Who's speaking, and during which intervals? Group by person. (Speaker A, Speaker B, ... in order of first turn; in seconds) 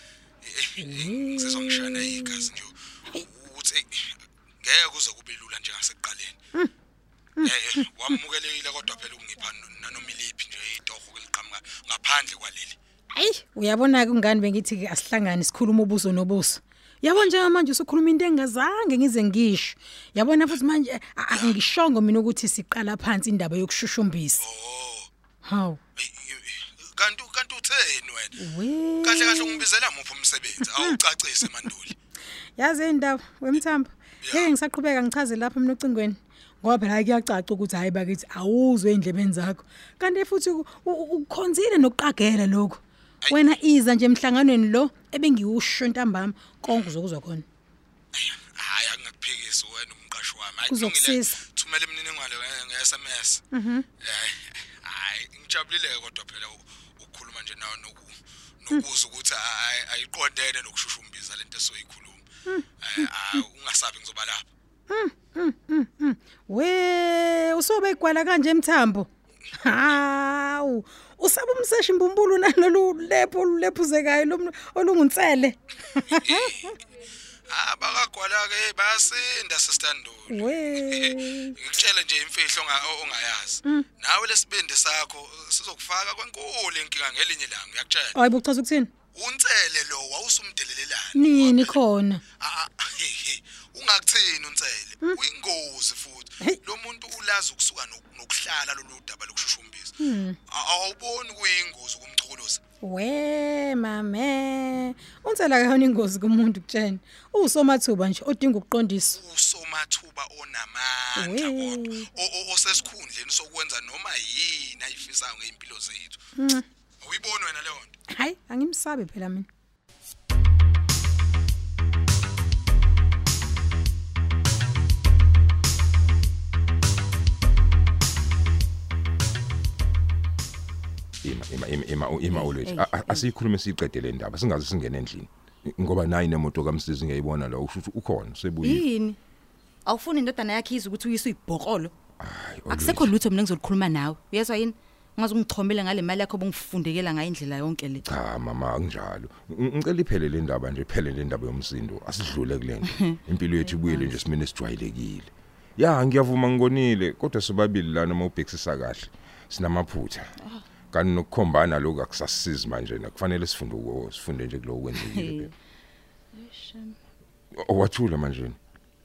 Speaker A: 0.4-6.4, 7.4-12.8, 21.3-21.6, 24.4-25.1, 26.0-28.4, 29.0-31.9, 34.2-34.5, 43.2-43.5, 46.7-46.9, 48.1-53.4, 54.0-62.2, 62.8-64.5, 76.1-76.7, 77.5-88.2, 89.1-91.8, 92.4-102.6, 109.2-116.2, 117.0-117.9
Speaker B: 0.8-2.5, 13.1-24.4, 25.4-25.8, 28.4-29.6, 32.6-47.5, 50.7-51.4, 53.5-53.9, 64.9-69.1, 69.6-76.7, 80.3-81.6, 88.2-88.9, 91.2-92.2, 100.0-100.4, 102.8-109.2, 111.2-112.1, 116.4-116.6, 118.1-119.5
Speaker C: 131.2-138.8, 142.2-143.1, 148.1-160.3, 160.9-165.5, 167.6-168.6
Speaker D: 132.3-133.3, 138.6-139.2, 139.9-141.9, 142.7-148.1, 152.9-154.2, 165.0-165.5, 166.3-167.0